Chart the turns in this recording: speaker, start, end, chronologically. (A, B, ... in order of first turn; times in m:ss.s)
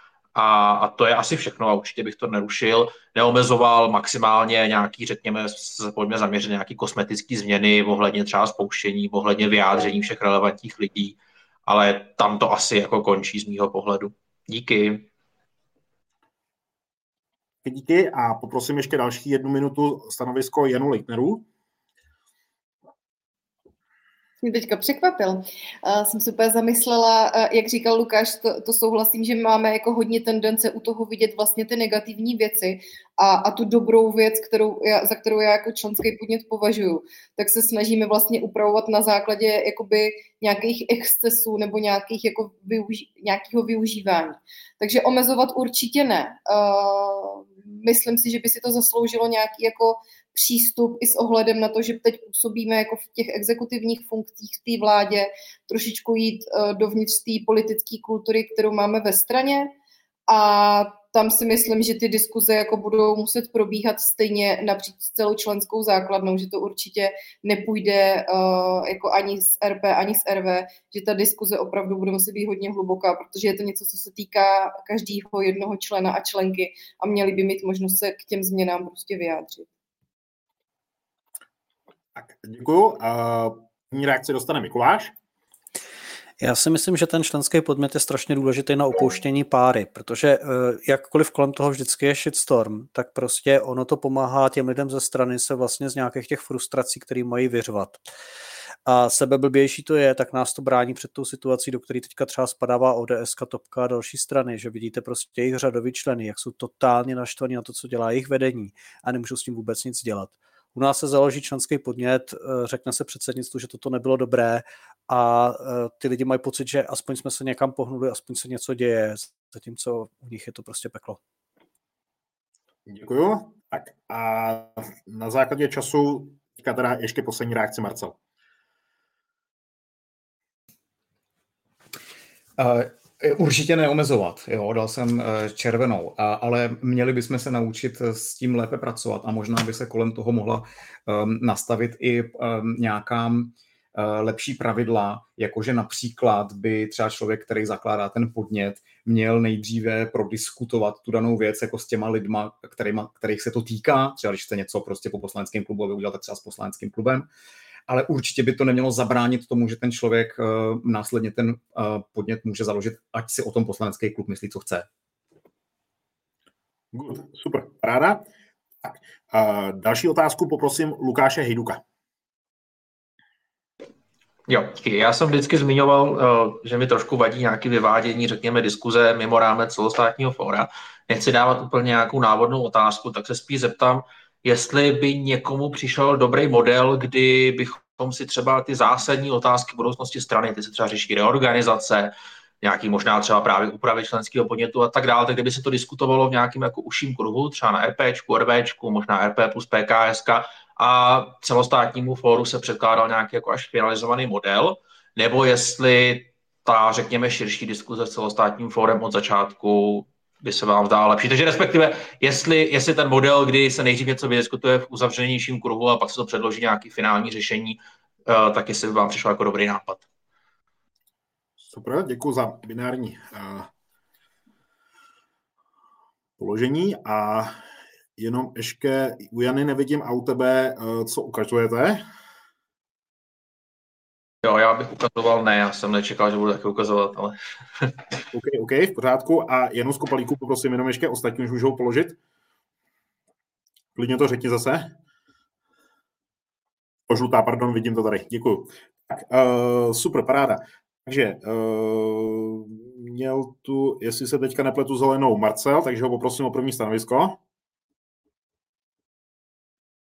0:00.3-0:15.1 A
0:17.6-0:21.4 B
0:24.4-0:59.7 C
1:00.3-1:19.7 C
1:22.1-1:25.1 B
1:26.4-1:38.1 D
1:38.8-2:01.2 D
2:02.9-2:08.2 B
2:12.6-2:37.3 E
2:37.9-2:44.9 E
2:46.9-2:48.2 B
2:48.8-2:51.8 B
2:54.5-3:40.0 A
3:41.6-3:43.7 B
3:46.4-3:47.6 B
3:48.2-3:52.0 B
3:54.4-3:57.9 A
3:58.3-4:02.2 B
4:03.9-4:04.9 B
4:07.1-4:17.4 B